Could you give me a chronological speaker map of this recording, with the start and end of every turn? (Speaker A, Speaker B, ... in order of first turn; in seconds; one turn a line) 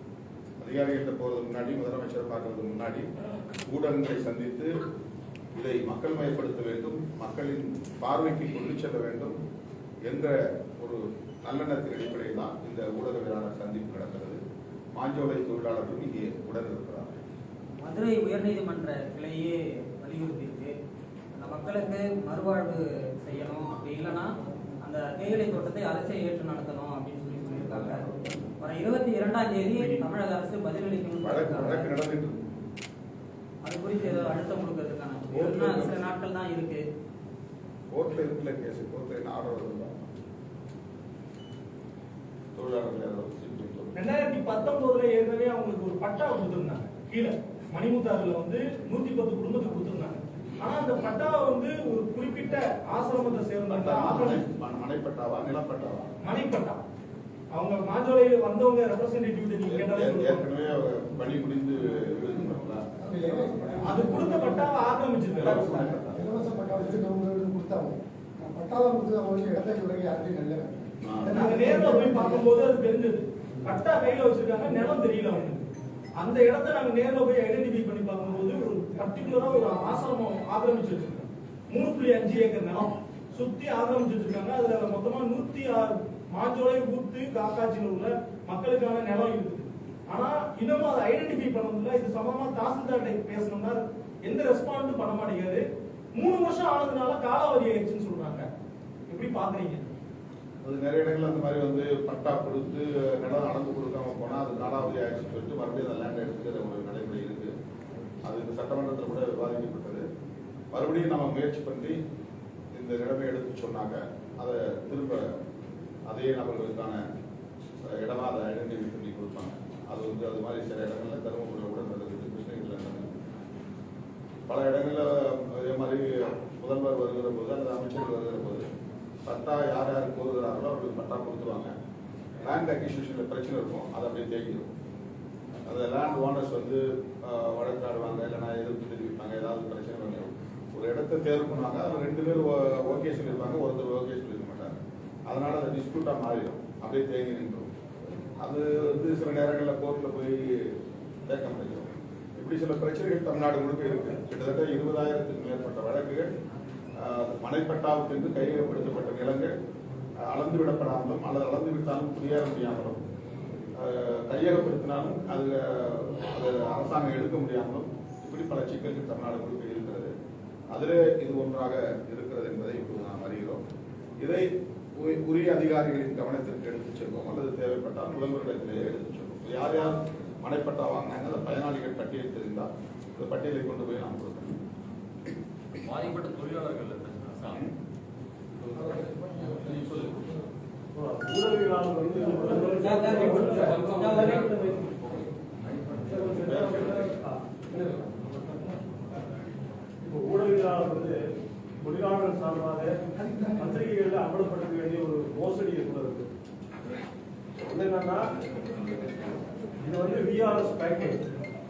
Speaker A: 0.6-3.1
Speaker A: 3.7-4.7
Speaker A: 5.5-9.4
Speaker A: 10.1-14.4
Speaker A: 14.9-17.2
Speaker B: 17.8-20.8
Speaker B: 21.4-28.1
Speaker A: 27.7-28.4
Speaker B: 28.6-31.9
Speaker A: 29.6-30.1
Speaker A: 31.2-32.4
Speaker B: 33.6-36.9
Speaker A: 35.3-36.0
Speaker A: 37.9-40.1
Speaker A: 42.5-44.0
Speaker C: 44.0-54.4
Speaker A: 53.7-56.1
Speaker C: 56.2-56.8
Speaker C: 57.5-60.5
Speaker A: 59.7-62.8
Speaker D: 63.0-64.7
Speaker C: 63.8-65.7
Speaker A: 65.4-66.2
Speaker D: 65.4-72.5
Speaker A: 71.0-71.3
Speaker C: 71.3-75.6
Speaker C: 76.2-95.6
Speaker C: 96.2-98.5
Speaker C: 99.1-99.9
Speaker A: 100.6-107.5
Speaker A: 108.3-110.1
Speaker A: 110.7-112.0
Speaker A: 112.8-115.4
Speaker A: 116.1-117.0
Speaker A: 117.9-123.2
Speaker A: 124.5-128.7
Speaker A: 129.3-131.7
Speaker A: 132.4-134.7
Speaker A: 135.7-147.7
Speaker A: 148.4-150.8
Speaker A: 151.3-156.3
Speaker A: 157.0-159.5
Speaker A: 160.3-163.0
Speaker A: 163.8-170.1
Speaker A: 170.7-173.6
Speaker A: 174.2-184.6
Speaker E: 185.8-187.7
Speaker E: 188.6-190.2
Speaker F: 190.9-194.4
Speaker B: 192.7-194.6
Speaker E: 193.4-195.2
Speaker A: 195.9-197.2
Speaker F: 200.0-201.2
Speaker F: 201.8-203.0
Speaker D: 203.2-203.8
Speaker F: 203.6-206.3
Speaker F: 207.7-208.3
Speaker F: 209.8-211.2